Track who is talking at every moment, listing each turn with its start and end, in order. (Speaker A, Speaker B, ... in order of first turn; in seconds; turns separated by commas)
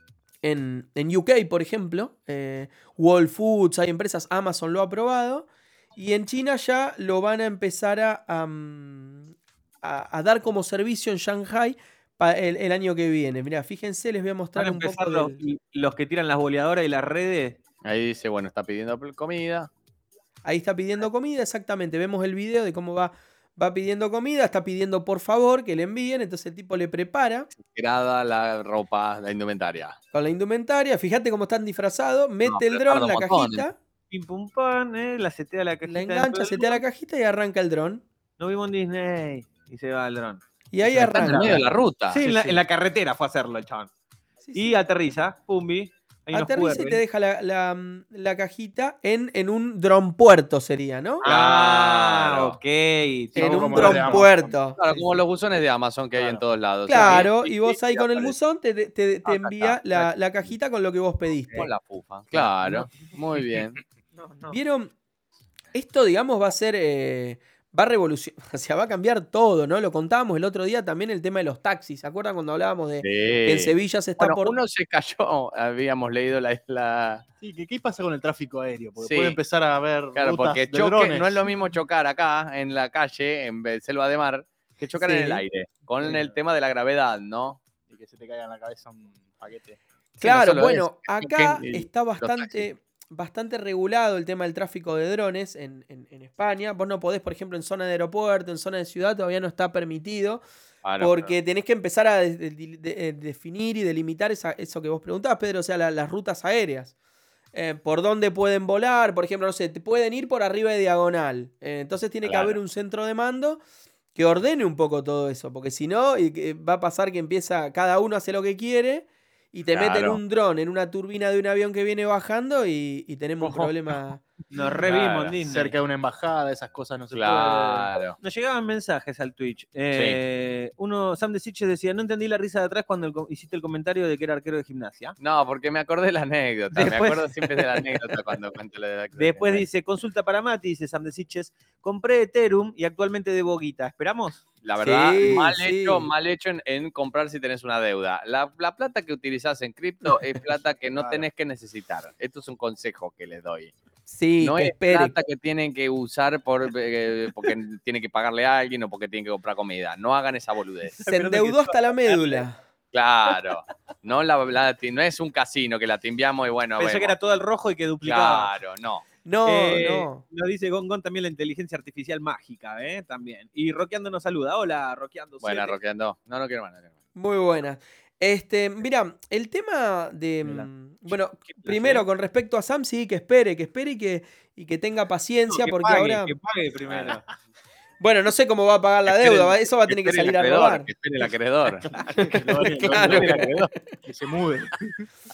Speaker A: 0.4-15.4, Speaker B: 14.6-17.6, Speaker C: 17.9-19.7, Speaker A: 20.4-27.5, Speaker C: 27.6-30.0, Speaker A: 30.1-33.8, Speaker C: 32.5-33.6, Speaker B: 34.1-36.8, Speaker A: 35.9-38.0, Speaker B: 38.4-43.9, Speaker A: 40.7-41.7, Speaker C: 41.0-42.3, Speaker A: 44.4-44.8, Speaker B: 44.5-47.0, Speaker A: 46.3-51.2, Speaker B: 51.2-54.2, Speaker C: 51.2-52.6, Speaker A: 53.4-54.8, Speaker D: 53.4-55.2, Speaker C: 53.8-54.2, Speaker C: 54.8-58.4, Speaker D: 56.1-56.4, Speaker A: 56.9-61.7, Speaker C: 59.2-60.1, Speaker C: 61.5-63.8, Speaker B: 64.2-64.6, Speaker A: 64.5-64.9, Speaker A: 65.7-74.6, Speaker C: 73.0-77.2, Speaker D: 77.4-81.5, Speaker C: 79.0-79.4, Speaker C: 80.2-87.6, Speaker A: 85.0-85.4, Speaker D: 86.0-86.4, Speaker D: 87.9-89.8, Speaker A: 90.2-100.4, Speaker C: 90.2-92.6, Speaker C: 100.8-101.3, Speaker A: 101.0-106.9, Speaker A: 107.5-113.6, Speaker C: 112.2-112.6, Speaker A: 114.2-124.2, Speaker C: 119.7-120.2, Speaker B: 124.5-125.8, Speaker C: 124.8-125.3, Speaker D: 125.4-127.9, Speaker C: 127.1-128.2, Speaker B: 128.2-135.2, Speaker C: 135.2-139.6, Speaker B: 136.7-137.9, Speaker B: 139.2-144.4, Speaker C: 144.6-153.7, Speaker A: 144.8-146.1, Speaker D: 151.0-151.2, Speaker A: 154.1-155.1, Speaker C: 154.4-161.0, Speaker B: 161.0-162.4, Speaker A: 161.1-162.6, Speaker C: 162.9-167.2, Speaker B: 166.8-168.5, Speaker C: 168.0-169.1, Speaker A: 169.2-170.2, Speaker B: 169.4-175.8, Speaker C: 175.4-176.9, Speaker A: 177.2-186.3, Speaker B: 180.4-182.1, Speaker B: 185.5-187.2, Speaker A: 188.0-190.9, Speaker C: 189.1-191.9, Speaker B: 191.8-193.5, Speaker D: 192.1-193.3, Speaker A: 192.2-193.4, Speaker C: 192.7-193.7, Speaker D: 194.1-195.1